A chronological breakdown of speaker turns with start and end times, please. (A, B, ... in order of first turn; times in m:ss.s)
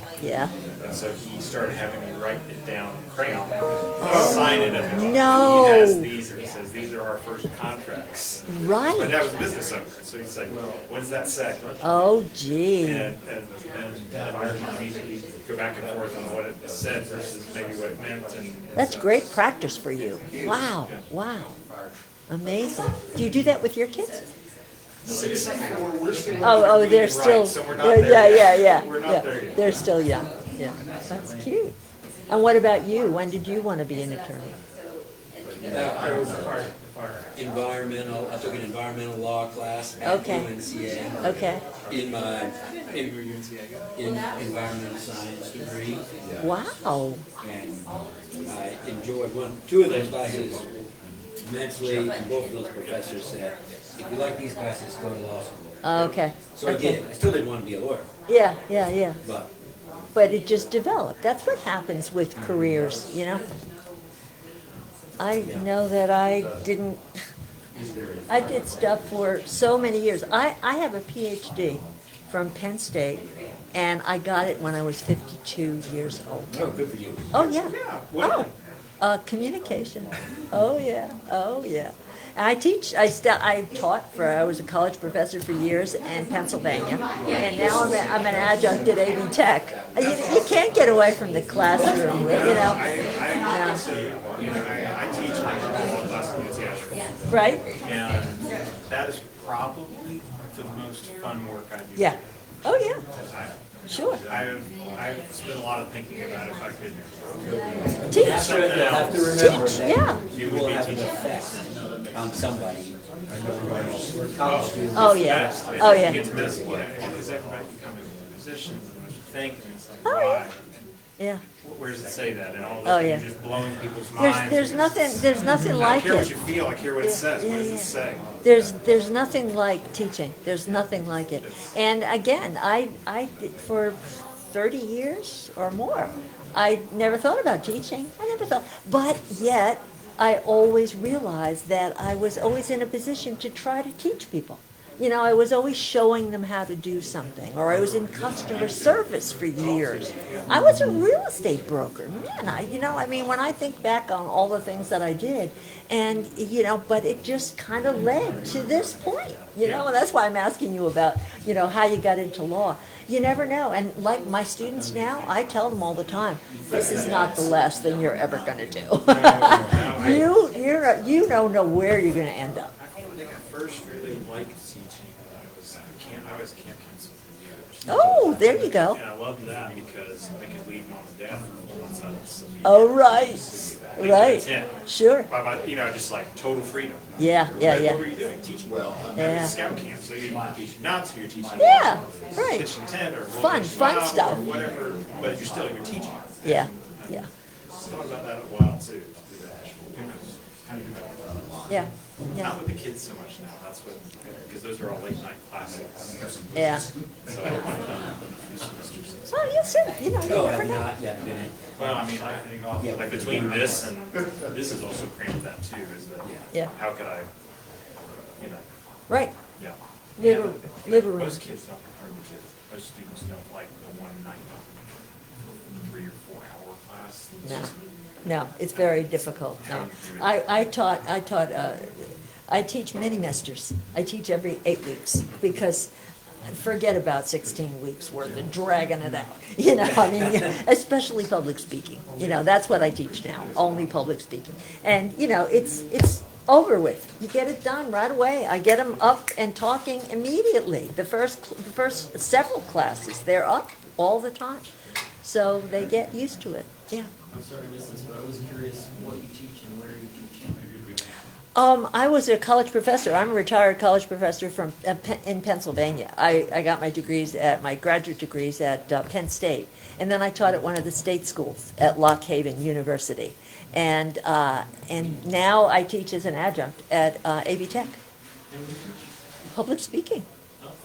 0:00.2-0:00.5 A
0:00.8-0:11.8 B
0:04.0-0:06.1 A
0:08.5-0:09.2 A
0:11.8-0:13.1 A
0:12.8-0:19.3 B
0:18.8-0:21.5 A
0:20.3-0:21.0 B
0:22.3-0:24.2 A
0:25.0-0:29.7 B
0:26.4-0:31.7 A
0:32.3-0:34.6 A
0:35.4-0:37.3 B
0:35.7-0:36.6 C
0:37.3-0:43.4 C
0:40.0-0:40.5 A
0:41.2-0:41.6 A
0:44.0-0:46.3 C
0:46.4-0:47.2 A
0:47.4-0:47.9 C
0:48.4-0:50.7 C
0:51.4-0:58.1 C
0:55.8-0:57.0 A
0:58.3-0:59.2 A
0:59.2-0:59.5 C
1:00.2-1:03.4 A
1:05.2-1:07.0 A
1:08.3-1:16.8 A
1:16.5-1:17.5 C
1:17.3-1:18.5 A
1:17.5-1:18.5 B
1:19.0-1:32.9 A
1:32.2-1:42.2 B
1:33.4-1:33.8 A
1:37.3-1:37.6 A
1:42.0-1:43.0 A
1:43.1-1:51.2 B
1:43.9-1:44.2 A
1:48.1-1:56.3 C
1:48.1-1:48.5 A
1:49.4-1:50.2 A
1:54.4-2:00.7 B
1:54.9-1:56.3 A
2:00.0-2:00.5 A
2:01.2-2:01.4 A
2:01.6-2:08.3 B
2:02.8-2:03.2 A
2:04.2-2:06.4 A
2:07.0-2:52.7 A
2:29.6-2:30.4 B
2:39.6-2:39.9 B
2:46.7-2:47.4 B
2:49.0-2:50.3 B
2:52.8-3:21.1 B
2:57.9-2:59.0 A
3:02.6-3:05.3 A
3:07.2-3:08.0 A
3:09.2-3:09.5 A
3:11.6-3:12.7 A
3:13.3-3:14.4 A
3:16.4-3:17.3 A
3:21.7-3:22.6 A
3:22.4-3:29.7 B
3:26.5-3:26.9 A
3:29.3-3:30.9 A
3:30.2-3:32.0 C
3:31.8-3:37.3 B
3:32.8-3:33.9 C
3:39.1-3:39.3 A
3:39.6-3:44.8 B
3:40.2-3:41.4 A
3:45.7-3:47.8 B
3:47.4-3:47.7 A
3:48.2-3:55.9 A
3:49.6-3:50.3 B
3:56.4-4:14.7 A
4:15.2-4:17.1 A
4:17.3-4:21.0 D
4:21.6-4:38.0 A
4:38.6-4:38.9 B
4:39.5-4:40.3 A